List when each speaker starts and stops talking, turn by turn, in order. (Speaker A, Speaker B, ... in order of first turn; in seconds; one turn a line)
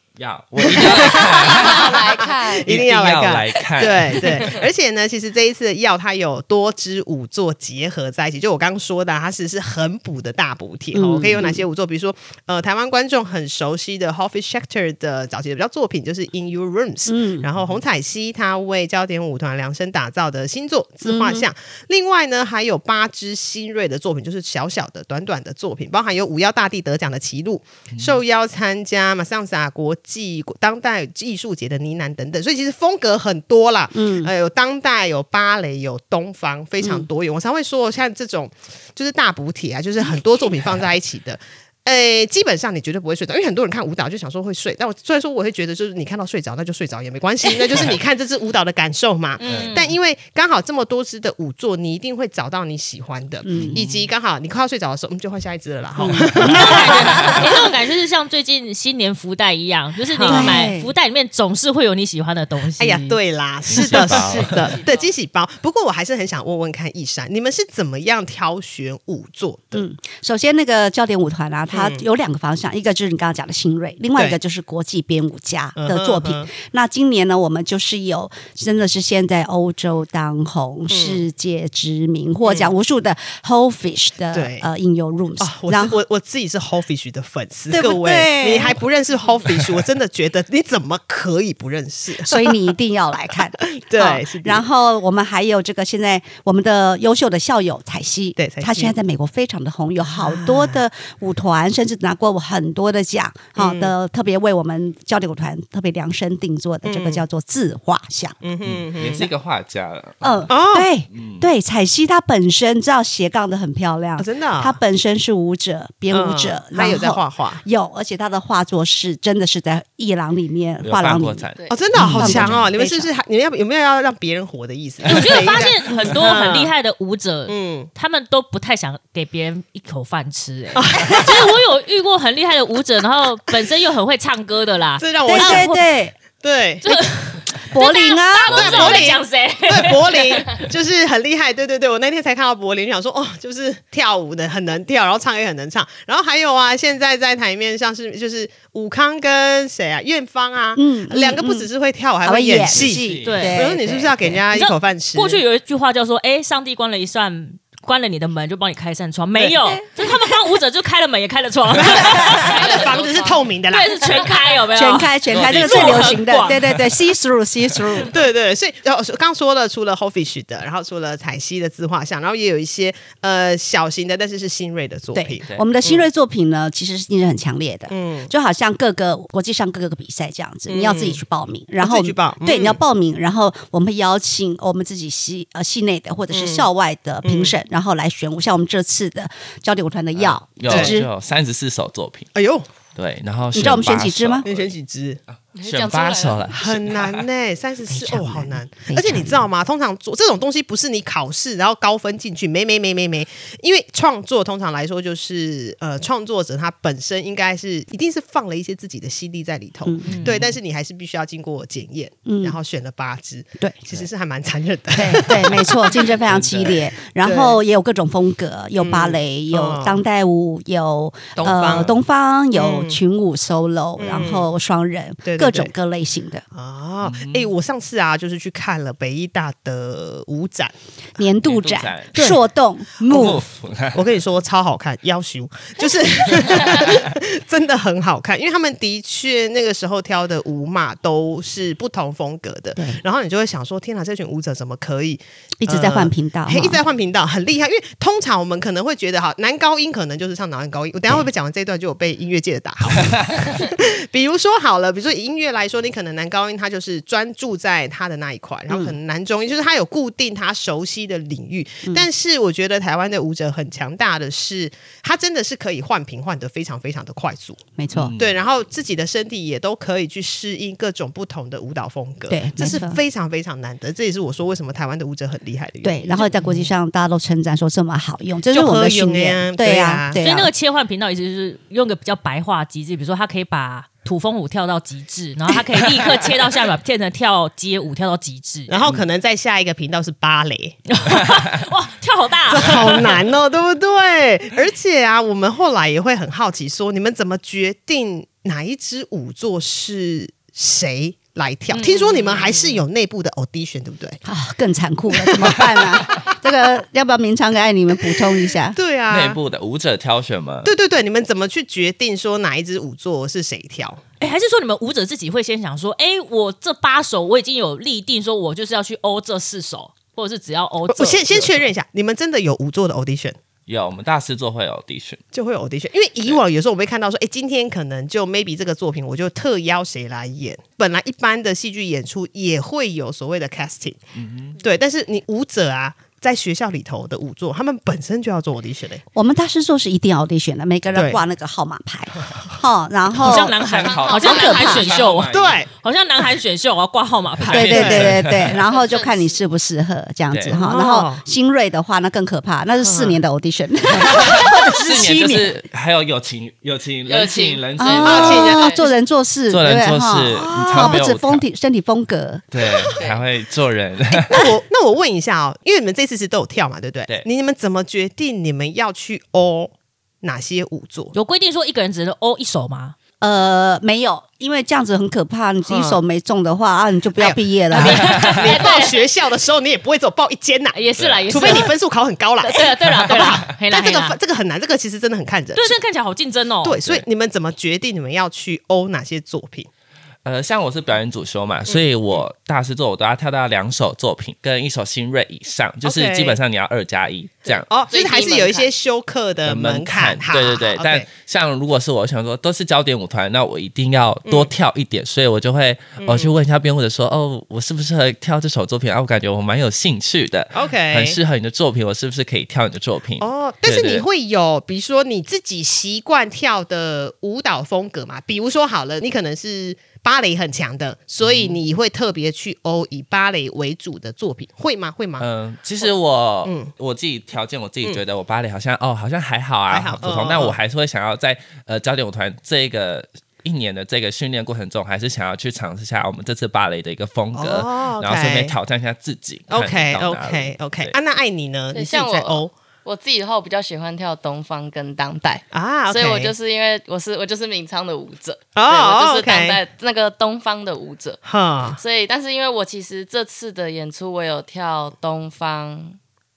Speaker A: 0.2-4.6
Speaker B: 0.6-57.4
Speaker C: 1.4-2.7
Speaker D: 10.9-11.6
Speaker D: 17.1-17.5
Speaker D: 21.1-21.5
Speaker D: 33.9-34.3
Speaker D: 36.8-37.1
Speaker E: 49.4-49.9
Speaker A: 49.5-49.8
Speaker D: 53.5-53.8
Speaker A: 53.5-54.1
Speaker D: 56.0-57.4
Speaker A: 56.4-57.4
Speaker E: 56.4-63.2
Speaker B: 60.1-60.6
Speaker D: 60.2-60.9
Speaker B: 62.8-69.8
Speaker A: 63.7-64.8
Speaker D: 69.7-86.0
Speaker B: 71.7-72.0
Speaker B: 75.8-76.5
Speaker B: 80.9-81.2
Speaker B: 82.4-82.7
Speaker B: 84.3-84.7
Speaker B: 85.4-92.7
Speaker D: 87.7-88.8
Speaker D: 92.2-108.4
Speaker B: 93.6-94.6
Speaker B: 98.4-99.0
Speaker B: 100.1-100.8
Speaker B: 103.6-103.9
Speaker B: 106.8-107.2
Speaker B: 108.4-109.3
Speaker A: 108.6-110.6
Speaker D: 110.2-123.1
Speaker B: 110.5-110.9
Speaker A: 111.1-111.5
Speaker B: 114.2-114.8
Speaker B: 116.1-117.6
Speaker A: 120.8-122.7
Speaker C: 121.6-121.9
Speaker B: 121.7-126.7
Speaker E: 125.1-135.8
Speaker B: 127.5-127.9
Speaker B: 130.8-131.5
Speaker B: 135.0-135.8
Speaker D: 135.3-136.2
Speaker B: 136.4-137.1
Speaker E: 136.8-140.6
Speaker D: 137.7-139.0
Speaker B: 138.5-155.4
Speaker D: 150.8-151.7
Speaker D: 152.2-154.4
Speaker A: 152.7-153.6
Speaker E: 153.2-153.6
Speaker E: 154.5-163.0
Speaker B: 159.3-159.8
Speaker B: 161.8-164.2
Speaker C: 162.3-163.4
Speaker E: 163.7-166.7
Speaker D: 164.7-168.1
Speaker A: 165.3-166.9
Speaker B: 168.0-176.1
Speaker D: 175.1-191.1
Speaker B: 177.9-178.3
Speaker B: 180.7-181.2
Speaker B: 181.8-182.8
Speaker B: 186.3-186.7
Speaker B: 187.2-187.6
Speaker A: 190.2-192.3
Speaker B: 190.7-191.0
Speaker B: 192.3-192.7
Speaker A: 192.9-194.7
Speaker D: 193.5-194.4
Speaker B: 194.4-195.2
Speaker C: 195.6-196.6
Speaker A: 195.6-197.3
Speaker B: 196.5-216.2
Speaker D: 197.9-199.5
Speaker D: 209.9-210.2
Speaker E: 210.1-210.4
Speaker D: 212.3-212.6
Speaker D: 214.9-226.4
Speaker A: 216.2-216.8
Speaker B: 217.2-217.6
Speaker B: 218.8-220.0
Speaker B: 221.4-221.9
Speaker B: 222.5-223.0
Speaker B: 224.0-224.5
Speaker B: 225.2-225.7
Speaker B: 226.5-230.7
Speaker A: 227.0-227.5
Speaker D: 231.2-233.5
Speaker A: 231.4-232.3
Speaker B: 232.1-232.4
Speaker A: 233.1-234.1
Speaker B: 233.9-267.6
Speaker D: 242.8-243.0
Speaker D: 245.6-246.8
Speaker A: 253.2-253.5
Speaker D: 258.7-258.9
Speaker D: 267.8-268.1
Speaker A: 267.9-268.4
Speaker B: 268.2-276.7
Speaker D: 272.3-273.0
Speaker D: 275.8-280.5
Speaker B: 278.5-280.2
Speaker E: 280.2-288.7
Speaker B: 288.7-290.8
Speaker E: 290.9-293.2
Speaker B: 292.5-304.2
Speaker E: 301.7-302.8
Speaker D: 304.2-308.8
Speaker B: 305.3-305.7
Speaker B: 308.7-309.4
Speaker A: 309.1-310.7
Speaker B: 310.6-314.0
Speaker E: 314.2-321.6
Speaker B: 320.9-323.4
Speaker A: 323.7-325.2
Speaker B: 325.3-334.0
Speaker A: 334.2-334.6
Speaker B: 334.6-339.0
Speaker D: 339.1-343.6
Speaker B: 340.9-341.2
Speaker A: 343.2-345.7
Speaker E: 343.2-348.0
Speaker C: 343.8-345.0
Speaker D: 344.2-344.9
Speaker B: 345.3-345.7
Speaker A: 347.4-348.7
Speaker D: 347.5-355.6
Speaker B: 347.6-348.2
Speaker C: 348.6-349.4
Speaker A: 350.3-350.6
Speaker B: 350.5-351.2
Speaker B: 352.8-353.2
Speaker A: 354.2-358.7
Speaker C: 357.1-358.9
Speaker D: 357.8-362.4
Speaker B: 358.0-358.9
Speaker A: 359.5-361.4
Speaker B: 360.4-361.1
Speaker A: 362.5-364.5
Speaker C: 363.0-363.2
Speaker B: 364.1-371.1
Speaker E: 371.1-373.0
Speaker D: 373.2-378.1
Speaker B: 375.7-376.0
Speaker B: 377.2-385.8
Speaker E: 377.7-378.9
Speaker A: 378.0-378.5
Speaker E: 380.7-381.8
Speaker A: 381.0-381.6
Speaker E: 382.4-384.2
Speaker A: 383.1-383.4
Speaker E: 385.6-386.8
Speaker B: 386.6-389.7
Speaker A: 390.2-397.7
Speaker B: 391.7-392.2
Speaker B: 395.8-396.4
Speaker C: 397.4-398.7
Speaker B: 397.7-401.1
Speaker A: 399.4-414.1
Speaker B: 404.2-404.5
Speaker B: 406.0-406.3
Speaker B: 410.5-411.2
Speaker B: 413.2-425.3
Speaker A: 421.2-421.6
Speaker A: 425.2-441.0
Speaker B: 426.4-426.7
Speaker B: 429.7-430.6
Speaker B: 437.3-438.6
Speaker B: 439.5-442.5
Speaker C: 441.7-451.2
Speaker B: 445.5-446.3
Speaker B: 448.6-449.6
Speaker B: 451.2-451.8
Speaker C: 451.8-456.0